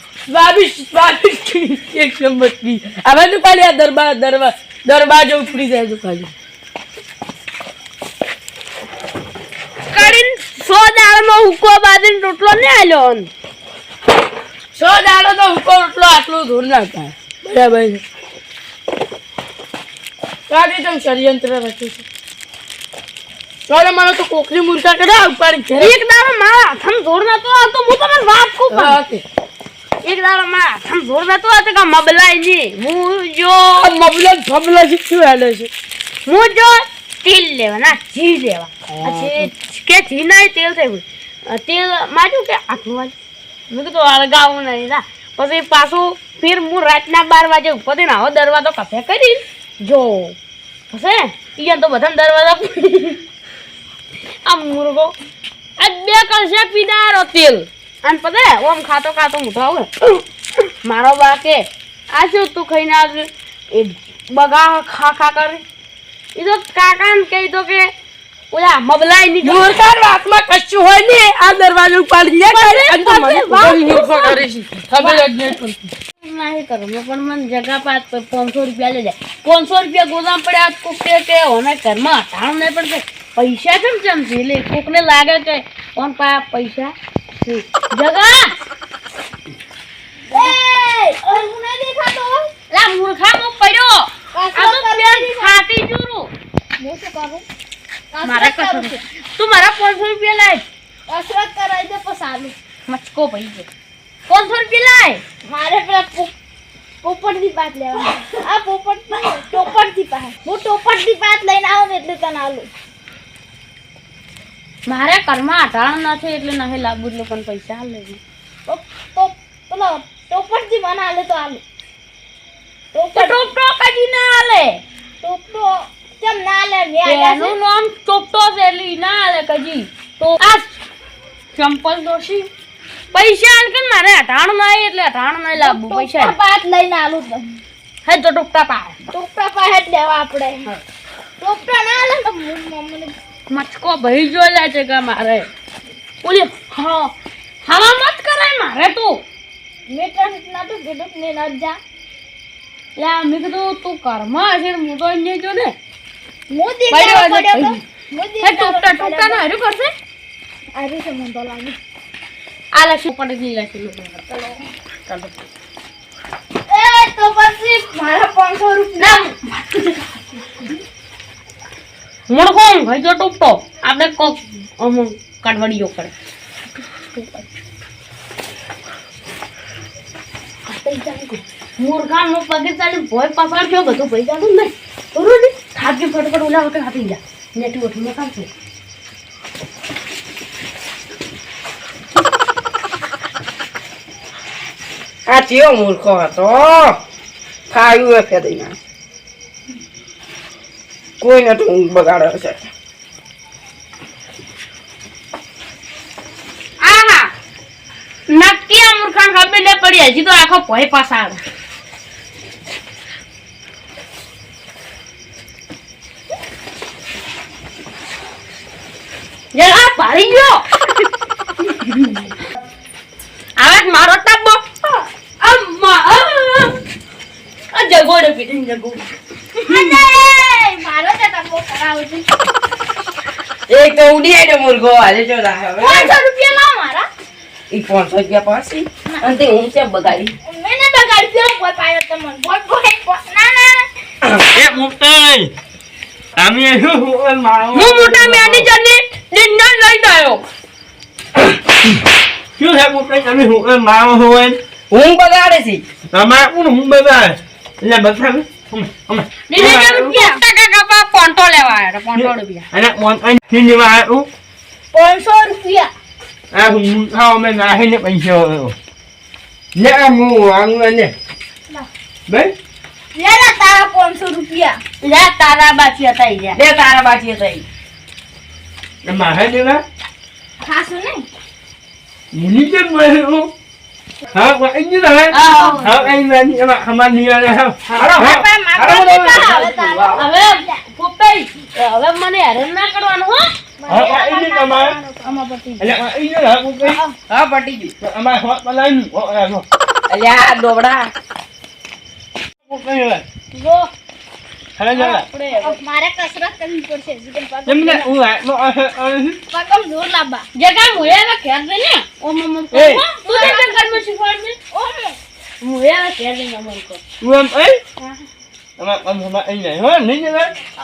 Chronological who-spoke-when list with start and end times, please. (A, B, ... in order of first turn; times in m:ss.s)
0:00.3-0:06.3 A
0:09.9-0:13.3 B
0:14.8-0:18.0 A
0:20.5-0:22.0 A
0:23.7-0:26.0 A
0:25.8-0:29.0 B
0:28.7-0:29.2 A
0:30.0-0:33.9 B
0:33.8-0:35.7 A
0:36.2-0:43.1 B
0:43.7-0:50.4 B
0:50.9-0:53.2 B
0:54.4-0:55.1 B
0:55.8-1:00.2 B
1:00.8-1:05.6 B
1:06.4-1:07.9 B
1:08.5-1:09.8 B
1:09.4-1:15.9 A
1:12.4-1:13.8 B
1:13.7-1:14.3 C
1:16.2-1:28.6 B
1:30.3-1:32.5 C
1:32.7-1:36.3 B
1:34.3-1:35.6 C
1:36.8-1:37.4 C
1:38.1-1:39.0 C
1:38.2-1:40.6 B
1:41.1-1:42.6 C
1:42.9-1:43.7 B
1:44.3-1:45.2 B
1:45.5-1:46.3 C
1:47.0-1:52.7 C
1:54.9-1:58.2 B
1:58.7-2:01.6 C
2:02.9-2:03.5 C
2:03.1-2:04.8 B
2:05.2-2:07.6 C
2:07.0-2:10.8 B
2:11.6-2:12.5 B
2:13.1-2:16.4 B
2:15.6-2:17.4 C
2:18.1-2:19.0 B
2:19.1-2:20.7 C
2:21.4-2:23.1 C
2:23.5-2:25.5 B
2:26.2-2:27.1 B
2:27.7-2:29.2 B
2:29.9-2:31.8 C
2:33.0-2:35.8 B
2:36.5-2:39.4 C
2:36.9-2:37.8 B
2:38.4-2:39.9 B
2:40.8-2:41.8 C
2:42.7-2:45.3 B
2:46.7-2:49.3 C
2:49.0-2:50.7 B
2:52.3-2:56.1 B
2:57.1-2:57.5 B
3:00.7-3:08.5 B
3:15.3-3:17.0 D
3:17.7-3:18.8 D
3:21.2-3:22.6 D
3:26.8-3:27.3 B
3:28.3-3:31.4 B
3:39.5-3:40.6 B
3:41.7-3:42.1 B
3:43.6-3:46.8 B
3:47.7-3:50.0 B
3:49.7-3:52.3 C
3:53.7-3:56.1 D
3:55.8-3:57.1 C
3:57.7-4:00.3 D
4:00.5-4:03.8 C
4:04.5-4:05.5 E
4:06.4-4:08.7 E
4:07.7-4:10.4 B
4:12.6-4:14.6 E
4:14.9-4:15.8 D
4:16.1-4:20.2 E
4:19.5-4:22.7 B
4:22.2-4:24.3 E
4:24.9-4:25.9 C
4:26.5-4:28.8 E
4:29.8-4:31.1 E
4:32.3-4:32.5 E
4:33.2-4:34.8 C
4:35.0-4:36.6 B
4:36.6-4:37.6 D
4:39.0-4:39.8 E
4:40.6-4:41.2 C
4:42.3-4:43.5 E
4:44.3-4:49.6 E
4:45.3-4:45.9 B
4:45.5-4:45.7 D
4:47.9-4:50.2 D
4:48.2-4:50.1 C
4:50.2-4:53.5 B
4:53.8-4:55.6 C
4:53.9-4:55.0 E
4:55.3-4:55.8 B
4:55.8-4:57.0 E
4:57.3-4:57.9 D
4:58.0-4:59.6 E
5:00.1-5:01.1 D
5:02.7-5:03.2 E
5:03.5-5:03.9 B
5:04.8-5:05.2 E
5:04.9-5:05.8 B
5:05.5-5:08.1 C
5:07.7-5:09.4 E
5:09.5-5:10.4 C
5:10.6-5:14.6 B
5:12.7-5:13.0 E
5:13.3-5:14.0 C
5:14.7-5:15.2 C
5:15.6-5:17.0 B
5:17.2-5:17.8 E
5:18.0-5:18.2 B
5:18.8-5:20.5 E